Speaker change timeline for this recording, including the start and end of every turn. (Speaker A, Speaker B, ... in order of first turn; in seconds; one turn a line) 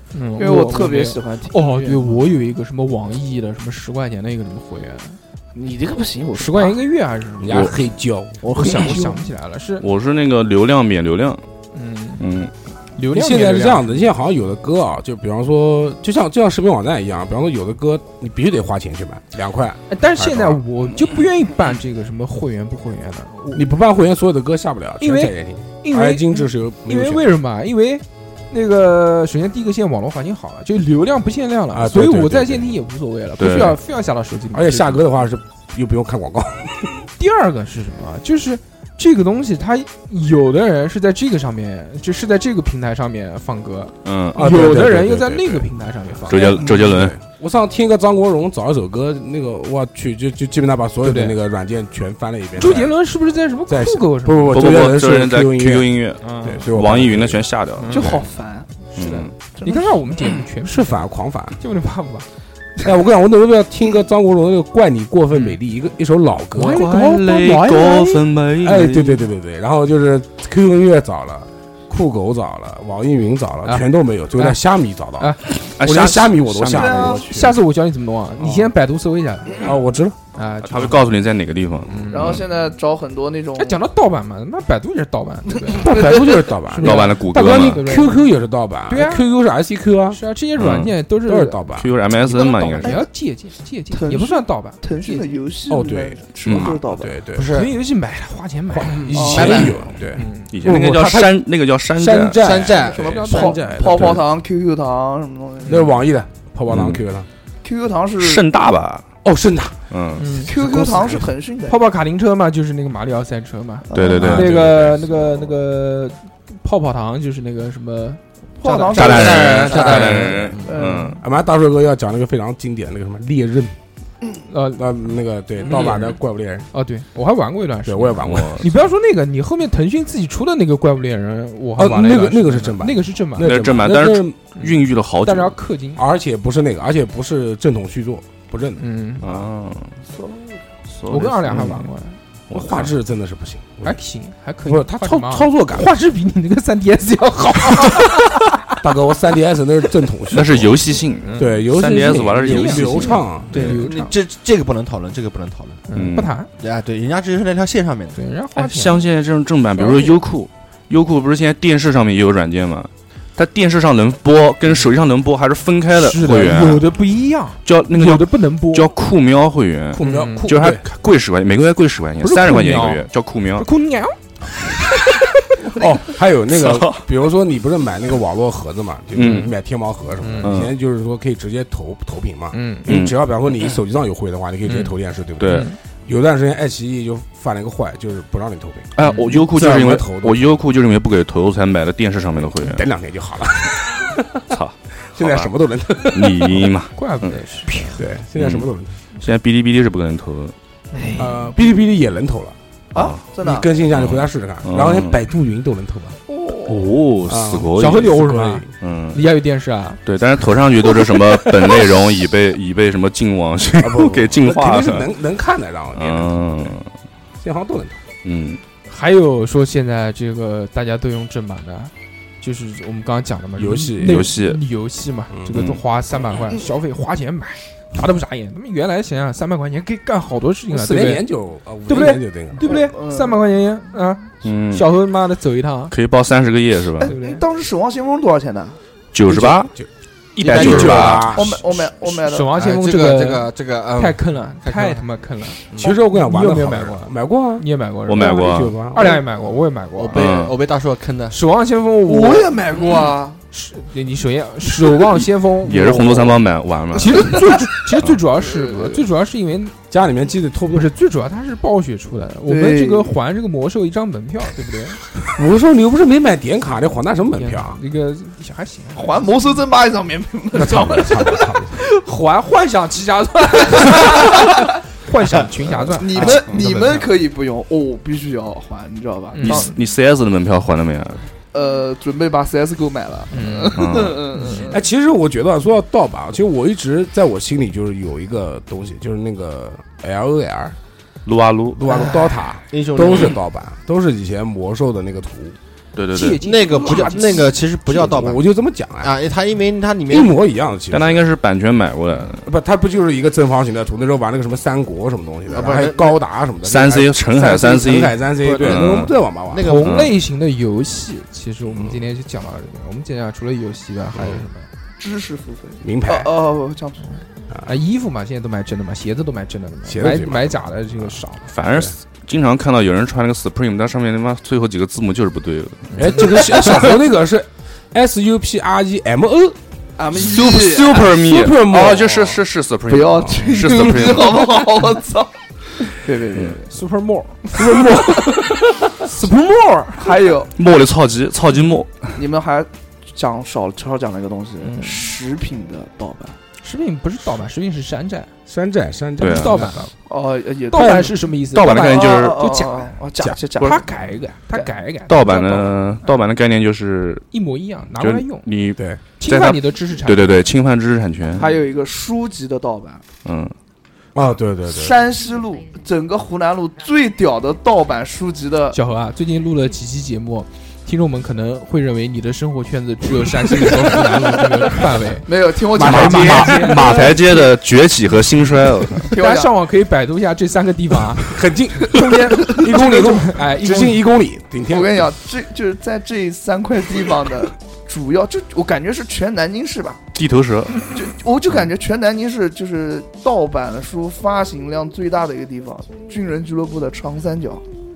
Speaker A: 0.1-5.2
Speaker B: 0.4-2.1
Speaker B: 5.5-6.8
Speaker A: 6.3-7.8
Speaker C: 7.4-9.0
Speaker B: 8.4-9.2
Speaker A: 8.5-9.9
Speaker D: 9.8-11.4
Speaker A: 11.7-12.2
Speaker D: 12.2-12.5
Speaker A: 13.0-14.1
Speaker C: 13.1-20.6
Speaker A: 19.9-23.7
Speaker C: 23.5-27.3
Speaker A: 25.0-35.0
Speaker C: 31.7-32.7
Speaker D: 33.4-33.8
Speaker C: 34.5-37.0
Speaker A: 37.2-46.5
Speaker D: 44.0-44.7
Speaker C: 44.4-45.7
Speaker C: 46.3-53.0
Speaker D: 46.3-47.2
Speaker A: 51.0-51.4
Speaker A: 52.6-54.7
Speaker C: 53.7-57.5
Speaker D: 54.5-58.2
Speaker A: 56.2-56.7
Speaker A: 57.8-58.2
Speaker B: 57.9-60.0
Speaker D: 59.0-59.3
Speaker A: 59.6-61.0
Speaker C: 60.7-61.6
Speaker A: 61.6-62.3
Speaker C: 62.8-66.8
Speaker A: 66.5-68.2
Speaker D: 66.6-69.3
Speaker C: 68.6-77.6
Speaker A: 73.7-74.6
Speaker A: 75.2-75.5
Speaker D: 75.6-77.0
Speaker B: 76.7-77.2
Speaker A: 77.0-79.7
Speaker C: 78.4-78.7
Speaker C: 79.6-80.2
Speaker A: 80.3-81.1
Speaker D: 80.6-82.4
Speaker A: 81.9-82.4
Speaker B: 82.1-83.8
Speaker A: 83.6-88.3
Speaker B: 85.7-86.4
Speaker C: 85.8-90.2
Speaker D: 86.8-87.9
Speaker A: 88.9-89.3
Speaker A: 90.1-91.6
Speaker D: 90.6-91.0
Speaker C: 91.2-91.9
Speaker D: 91.8-93.0
Speaker B: 92.3-93.1
Speaker A: 92.3-95.3
Speaker B: 93.9-97.2
Speaker C: 95.7-97.5
Speaker D: 96.5-96.7
Speaker E: 97.3-97.7
Speaker A: 97.5-100.5
Speaker C: 98.7-101.4
Speaker B: 99.1-99.8
Speaker E: 99.2-99.8
Speaker D: 100.5-102.6
Speaker C: 102.0-104.2
Speaker E: 102.4-103.5
Speaker B: 102.8-106.0
Speaker C: 105.7-107.3
Speaker D: 106.7-107.0
Speaker B: 107.6-108.5
Speaker D: 108.2-109.1
Speaker C: 109.2-109.8
Speaker D: 109.9-110.3
Speaker A: 110.2-110.5
Speaker B: 110.5-111.8
Speaker C: 110.5-111.3
Speaker A: 111.7-120.4
Speaker B: 113.9-114.3
Speaker D: 113.9-114.9
Speaker C: 114.2-115.5
Speaker B: 118.6-120.0
Speaker D: 118.9-121.2
Speaker E: 119.0-120.6
Speaker B: 120.6-121.2
Speaker C: 121.2-123.8
Speaker A: 124.5-124.8
Speaker C: 124.8-126.7
Speaker A: 125.6-126.2
Speaker A: 126.7-133.7
Speaker C: 127.9-128.6
Speaker D: 128.2-128.7
Speaker C: 131.8-134.4
Speaker D: 133.4-135.6
Speaker A: 134.6-136.0
Speaker C: 136.0-138.8
Speaker A: 138.8-139.3
Speaker D: 139.2-140.0
Speaker B: 140.1-140.6
Speaker D: 140.9-141.9
Speaker A: 141.1-142.2
Speaker D: 142.5-142.9
Speaker C: 142.5-144.0
Speaker A: 143.8-148.3
Speaker C: 144.6-145.9
Speaker C: 148.8-150.8
Speaker D: 150.3-153.8
Speaker A: 151.2-154.1
Speaker C: 151.4-153.9
Speaker E: 153.6-155.8
Speaker A: 155.9-156.5
Speaker D: 155.9-156.3
Speaker E: 156.6-158.2
Speaker A: 158.2-159.0
Speaker D: 158.6-166.9
Speaker A: 165.9-168.9
Speaker D: 167.7-173.7
Speaker C: 169.9-170.8
Speaker A: 170.0-170.5
Speaker A: 172.2-173.1
Speaker A: 173.6-174.2
Speaker C: 175.7-190.4
Speaker D: 176.5-177.0
Speaker D: 179.2-179.5
Speaker A: 179.2-179.5
Speaker A: 180.2-180.6
Speaker D: 180.4-180.7
Speaker A: 182.5-182.9
Speaker D: 182.9-183.8
Speaker D: 184.7-185.7
Speaker A: 185.5-185.8
Speaker D: 189.0-192.9
Speaker C: 192.6-194.4
Speaker D: 194.5-195.5
Speaker C: 195.2-196.7
Speaker D: 196.1-197.4
Speaker A: 197.0-198.0
Speaker C: 198.0-198.9
Speaker D: 198.4-198.7
Speaker D: 199.2-200.6
Speaker A: 200.9-201.3
Speaker C: 201.2-202.6
Speaker B: 202.9-203.7
Speaker D: 202.9-203.2
Speaker C: 203.4-206.2
Speaker D: 203.9-205.2
Speaker B: 206.3-206.8
Speaker D: 206.7-208.1
Speaker C: 207.3-208.7
Speaker A: 207.8-210.0
Speaker D: 208.8-209.2
Speaker D: 210.1-215.2
Speaker C: 213.8-216.7
Speaker D: 215.9-216.9
Speaker C: 217.4-218.0
Speaker D: 218.2-218.6
Speaker A: 218.9-231.3
Speaker C: 223.6-224.2
Speaker D: 224.0-224.6
Speaker D: 225.5-225.8
Speaker C: 230.7-232.6
Speaker A: 231.9-235.9
Speaker B: 232.6-233.4
Speaker D: 234.4-234.9
Speaker D: 235.9-237.1
Speaker B: 237.0-238.8
Speaker A: 237.0-237.4
Speaker D: 239.1-239.7
Speaker C: 239.3-241.6
Speaker D: 240.4-241.4
Speaker E: 240.4-241.3
Speaker B: 241.3-242.6
Speaker A: 242.1-250.3
Speaker E: 242.5-245.1
Speaker C: 245.8-247.7
Speaker D: 248.1-248.8
Speaker C: 248.2-249.2
Speaker E: 250.0-251.4
Speaker D: 250.1-250.6
Speaker A: 251.3-252.6
Speaker B: 252.1-253.4
Speaker A: 253.5-256.4
Speaker D: 255.6-257.4
Speaker A: 256.9-259.8
Speaker B: 258.4-259.1
Speaker C: 259.9-260.9
Speaker A: 260.7-265.0
Speaker B: 262.5-263.1
Speaker C: 265.2-267.8
Speaker A: 267.3-269.5
Speaker B: 268.9-271.4
Speaker C: 270.5-271.8
Speaker A: 271.8-277.1
Speaker B: 274.2-274.6
Speaker B: 275.9-279.8
Speaker A: 279.3-279.7
Speaker D: 279.4-281.2
Speaker B: 281.5-284.8
Speaker A: 283.3-284.7
Speaker D: 283.8-284.2
Speaker C: 284.7-290.8
Speaker D: 291.3-291.8
Speaker C: 291.8-295.6
Speaker E: 292.7-293.4
Speaker D: 296.0-296.4
Speaker A: 296.1-297.5
Speaker E: 296.4-298.4
Speaker C: 297.9-299.1
Speaker E: 299.0-300.4
Speaker C: 300.1-301.2
Speaker D: 300.9-302.5
Speaker C: 302.4-309.7
Speaker E: 305.5-306.2
Speaker D: 306.6-309.2
Speaker E: 308.4-310.1
Speaker A: 309.6-314.7
Speaker D: 309.8-310.1
Speaker C: 314.2-314.4
Speaker B: 315.0-317.1
Speaker C: 315.8-316.3
Speaker A: 317.6-321.5
Speaker C: 319.9-321.2
Speaker D: 321.5-326.8
Speaker A: 325.9-326.2
Speaker C: 325.9-329.6
Speaker B: 330.0-331.1
Speaker D: 330.1-334.7
Speaker C: 331.1-332.4
Speaker B: 332.9-336.7
Speaker A: 336.7-337.6
Speaker B: 337.6-338.4
Speaker A: 339.0-340.1
Speaker B: 340.0-340.5
Speaker D: 340.6-342.2
Speaker B: 342.1-346.4
Speaker A: 344.6-345.0
Speaker A: 346.6-348.3
Speaker C: 348.5-349.9
Speaker A: 349.2-349.9
Speaker D: 349.2-349.7
Speaker B: 350.1-351.1
Speaker A: 350.7-352.9
Speaker D: 351.5-352.4
Speaker B: 351.6-353.9
Speaker A: 353.6-355.8
Speaker D: 355.1-357.2
Speaker A: 357.3-358.5
Speaker D: 358.0-361.6
Speaker A: 359.2-360.4
Speaker B: 361.3-363.0
Speaker D: 363.2-363.5
Speaker C: 364.1-365.0
Speaker B: 364.7-368.8
Speaker A: 368.7-377.0
Speaker B: 375.3-377.5
Speaker C: 375.7-376.9
Speaker D: 375.8-379.1
Speaker B: 379.1-379.5
Speaker A: 379.1-384.0
Speaker C: 381.2-385.1
Speaker B: 384.7-390.0
Speaker D: 390.1-390.9
Speaker B: 390.9-397.6